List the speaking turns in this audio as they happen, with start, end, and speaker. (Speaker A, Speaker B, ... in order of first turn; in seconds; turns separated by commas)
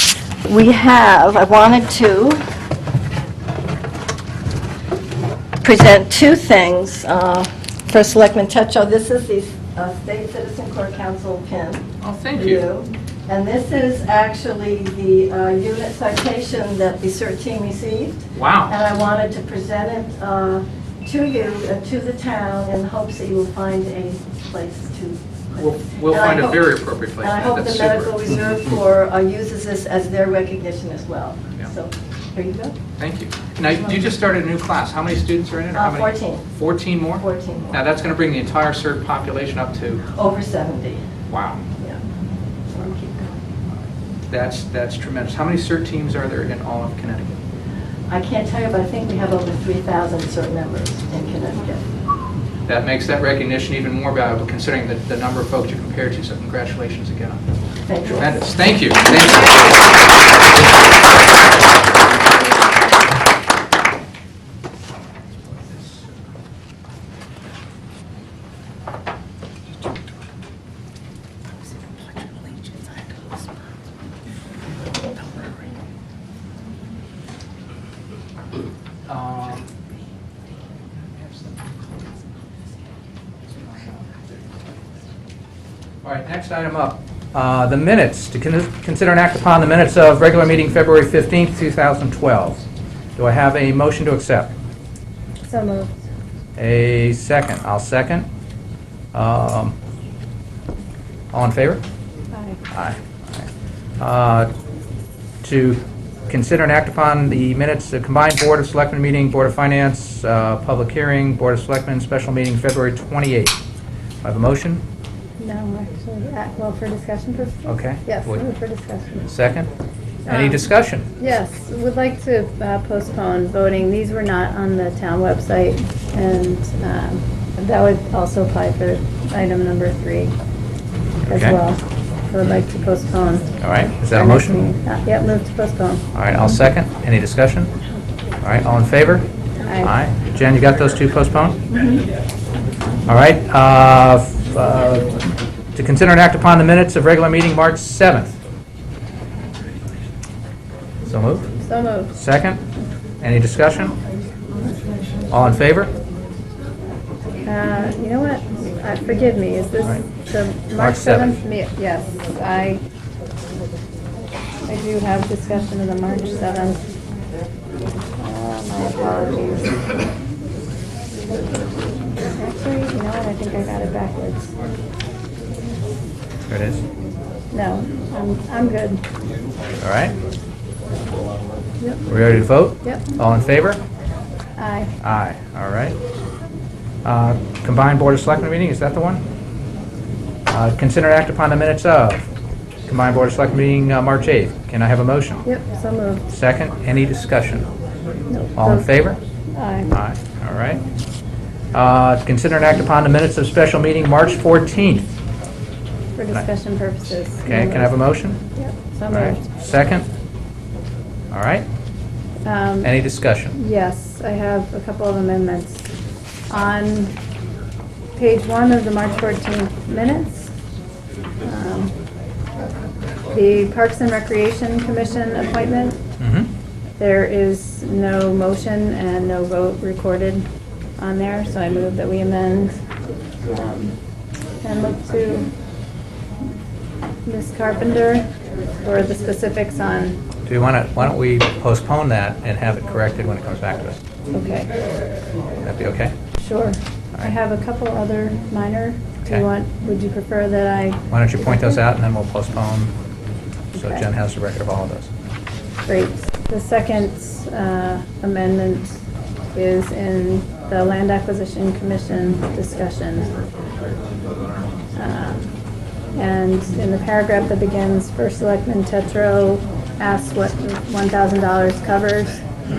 Speaker A: 0.4-2.4, Speaker A: 5.6-32.8, Speaker B: 12.0-12.6, Speaker B: 18.3-18.7, Speaker B: 25.6-28.3, Speaker B: 33.0-40.0, Speaker A: 35.7-36.5, Speaker A: 37.1-37.8, Speaker A: 40.1-41.0, Speaker B: 41.3-41.6, Speaker A: 42.7-43.3, Speaker B: 44.3-47.4, Speaker A: 48.1-51.9, Speaker B: 52.6-57.4, Speaker A: 57.9-58.4, Speaker B: 58.0-59.9, Speaker B: 79.1-79.7, Speaker B: 86.0-92.6, Speaker B: 93.2-94.5, Speaker C: 95.5-95.9, Speaker B: 96.6-98.3, Speaker B: 99.1-99.7, Speaker B: 101.3-101.8, Speaker C: 102.3-102.6, Speaker B: 102.7-103.5, Speaker B: 104.0-104.5, Speaker B: 105.4-113.5, Speaker B: 114.2-114.8, Speaker C: 115.4-119.3, Speaker B: 117.7-118.4, Speaker B: 119.2-119.7, Speaker C: 120.2-120.6, Speaker B: 120.2-121.1, Speaker C: 121.2-130.3, Speaker B: 131.2-131.6, Speaker C: 131.3-136.1, Speaker B: 133.6-134.6, Speaker B: 136.1-137.7, Speaker B: 138.4-139.3, Speaker C: 139.6-139.9, Speaker B: 139.8-141.6, Speaker B: 143.1-148.3, Speaker B: 151.1-151.5, Speaker C: 151.6-152.1, Speaker B: 152.1-152.6, Speaker B: 153.2-154.0, Speaker B: 155.3-155.9, Speaker C: 157.4-162.8, Speaker B: 160.8-161.4, Speaker C: 164.7-166.8, Speaker C: 168.2-169.7, Speaker C: 172.3-174.5, Speaker B: 176.5-176.8, Speaker C: 177.5-179.0, Speaker B: 179.8-180.1, Speaker C: 181.8-182.1, Speaker B: 182.1-183.8, Speaker C: 184.6-184.9, Speaker B: 185.0-186.0, Speaker B: 187.0-189.2, Speaker B: 190.5-192.3, Speaker B: 192.8-195.4, Speaker C: 195.4-196.3, Speaker B: 196.3-197.7, Speaker C: 198.3-198.8, Speaker B: 198.6-199.2, Speaker C: 199.5-199.9, Speaker B: 199.9-200.8, Speaker B: 201.7-205.1, Speaker C: 206.2-207.9, Speaker B: 207.4-208.4, Speaker C: 208.5-209.5, Speaker B: 209.1-210.1, Speaker B: 211.3-211.7, Speaker C: 212.4-212.9, Speaker B: 212.8-213.5, Speaker C: 213.5-215.8, Speaker C: 216.5-217.1, Speaker C: 218.2-220.5, Speaker C: 221.4-221.9, Speaker C: 223.3-226.0, Speaker B: 226.2-226.5, Speaker C: 227.0-230.4, Speaker C: 231.0-232.7, Speaker C: 233.4-233.9, Speaker C: 234.6-235.5, Speaker C: 237.2-238.3, Speaker C: 238.8-240.2, Speaker B: 240.4-244.0, Speaker C: 244.3-244.7, Speaker B: 245.6-246.1, Speaker C: 246.4-251.8, Speaker B: 251.1-252.9, Speaker C: 253.7-254.0, Speaker B: 253.7-255.1, Speaker C: 255.8-258.9, Speaker C: 259.5-263.3, Speaker C: 264.9-265.5, Speaker C: 266.1-272.4